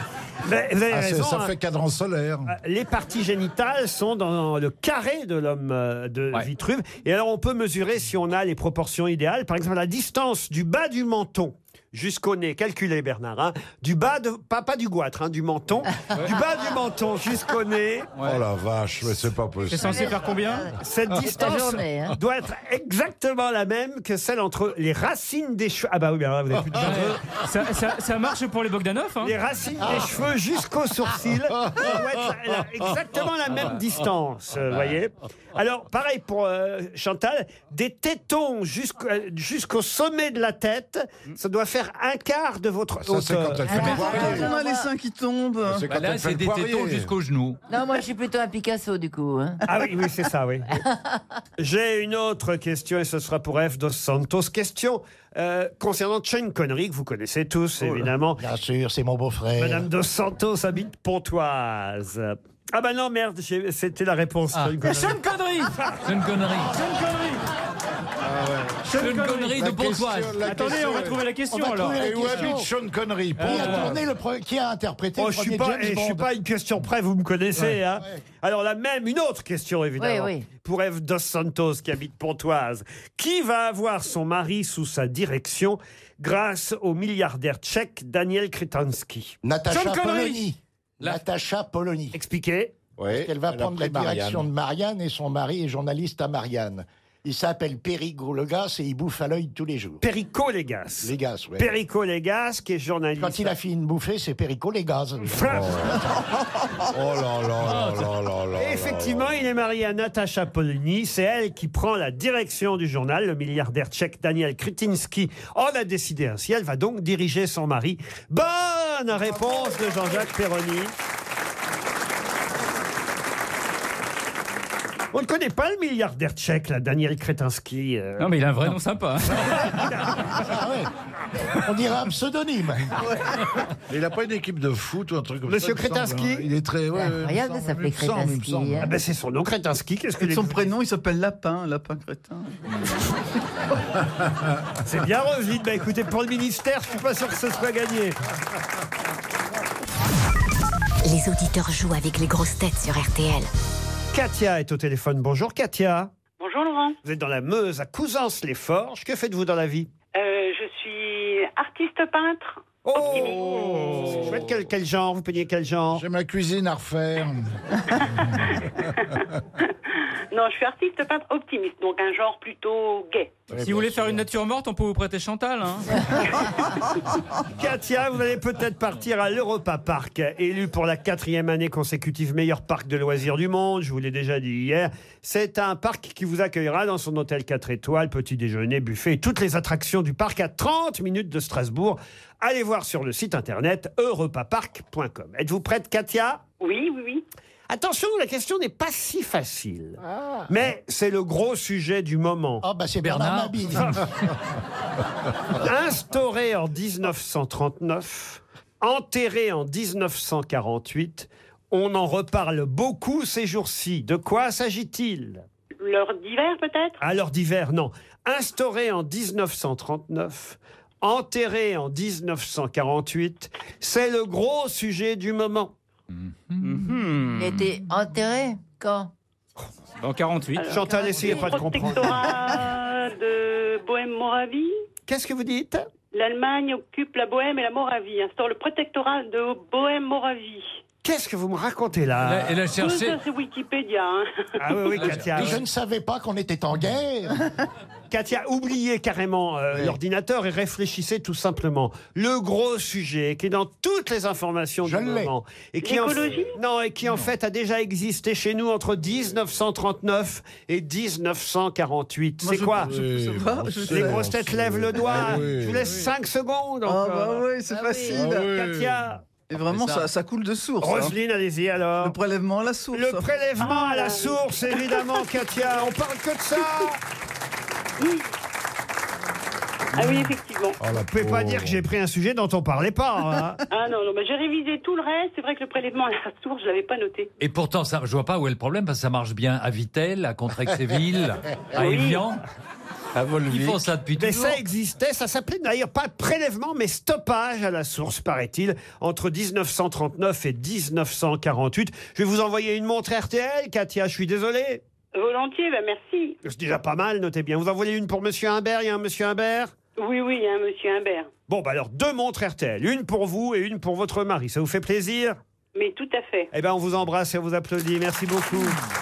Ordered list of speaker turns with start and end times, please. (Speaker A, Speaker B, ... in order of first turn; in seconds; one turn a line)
Speaker A: 0.4-1.5
Speaker B: 0.9-2.5
Speaker A: 2.5-18.1
Speaker B: 18.2-20.1
Speaker C: 19.7-20.7
Speaker D: 19.8-22.2
Speaker A: 20.8-27.2
Speaker C: 26.8-29.4
Speaker A: 29.2-43.7
Speaker B: 31.7-32.0
Speaker B: 43.0-44.5
Speaker D: 43.7-44.9
Speaker E: 43.7-45.9
Speaker B: 45.7-47.1
Speaker F: 45.9-47.6
Speaker D: 47.7-49.6
Speaker A: 49.7-50.7
Speaker D: 50.7-51.2
Speaker A: 51.6-58.4
Speaker G: 58.4-59.9
Speaker A: 59.6-65.2
Speaker C: 64.8-65.8
Speaker F: 66.0-66.8
Speaker C: 66.7-67.5
Speaker B: 68.2-68.9
Speaker C: 68.8-69.7
Speaker F: 68.9-70.5
Speaker B: 69.5-71.3
Speaker C: 70.4-72.5
Speaker G: 71.5-72.7
Speaker B: 72.0-74.0
Speaker C: 73.4-74.0
Speaker G: 73.4-76.3
Speaker A: 75.2-90.4
Speaker D: 80.0-80.5
Speaker G: 89.4-92.2
Speaker A: 92.1-92.8
Speaker B: 93.0-94.5
Speaker G: 93.1-100.0
Speaker A: 100.0-103.5
Speaker G: 101.0-101.7
Speaker G: 103.2-106.0
Speaker A: 105.3-105.7
Speaker B: 105.5-106.0
Speaker B: 106.9-109.4
Speaker A: 108.6-120.9
Speaker A: 125.1-128.3
Speaker C: 128.2-129.8
Speaker A: 129.6-130.2
Speaker G: 130.3-130.9
Speaker G: 131.5-132.9
Speaker E: 133.0-133.4
Speaker B: 133.9-138.9
Speaker A: 135.5-136.5
Speaker D: 136.9-138.9
Speaker A: 138.8-140.7
Speaker E: 140.2-142.5
Speaker A: 144.8-148.2
Speaker H: 151.0-153.5
Speaker A: 154.1-156.1
Speaker I: 156.4-157.0
Speaker A: 157.0-159.9
Speaker I: 160.2-164.0
Speaker A: 162.8-166.0
Speaker B: 163.0-164.5
Speaker B: 165.9-168.5
Speaker I: 168.0-169.7
Speaker I: 170.3-173.4
Speaker B: 173.5-174.2
Speaker C: 173.6-176.1
Speaker A: 177.6-196.4
Speaker I: 196.6-197.2
Speaker A: 197.7-202.7
Speaker G: 202.6-204.0
Speaker F: 203.0-204.0
Speaker A: 205.5-215.4
Speaker I: 215.8-217.0
Speaker A: 217.0-225.7
Speaker F: 226.1-226.8
Speaker C: 226.6-227.7
Speaker D: 227.4-229.1
Speaker C: 230.0-230.7
Speaker I: 230.6-234.7
Speaker A: 230.7-232.4
Speaker A: 235.1-235.9
Speaker I: 236.1-240.7
Speaker A: 241.0-242.6
Speaker F: 242.2-243.2
Speaker I: 242.7-245.0
Speaker A: 244.6-245.6
Speaker F: 245.0-245.6
Speaker G: 245.3-247.4
Speaker A: 248.1-262.9
Speaker G: 254.8-255.3
Speaker I: 255.8-256.6
Speaker E: 262.4-264.3
Speaker B: 262.8-266.1
Speaker A: 263.9-267.5
Speaker E: 266.9-268.5
Speaker A: 268.1-269.2
Speaker B: 268.1-269.0
Speaker E: 269.5-271.1
Speaker F: 269.6-270.1
Speaker A: 270.8-272.2
Speaker E: 272.0-273.3
Speaker A: 272.9-277.0
Speaker I: 273.6-275.4
Speaker I: 278.0-278.2
Speaker I: 279.9-280.8
Speaker B: 280.8-281.9
Speaker A: 281.1-283.6
Speaker I: 283.7-287.3
Speaker F: 287.4-292.4
Speaker I: 291.8-292.2
Speaker B: 293.1-293.9
Speaker F: 293.5-294.6
Speaker A: 294.2-304.8
Speaker I: 305.1-306.4
Speaker A: 306.4-309.8
Speaker I: 310.0-311.3
Speaker A: 311.5-315.4
Speaker I: 315.8-316.5
Speaker A: 316.5-318.8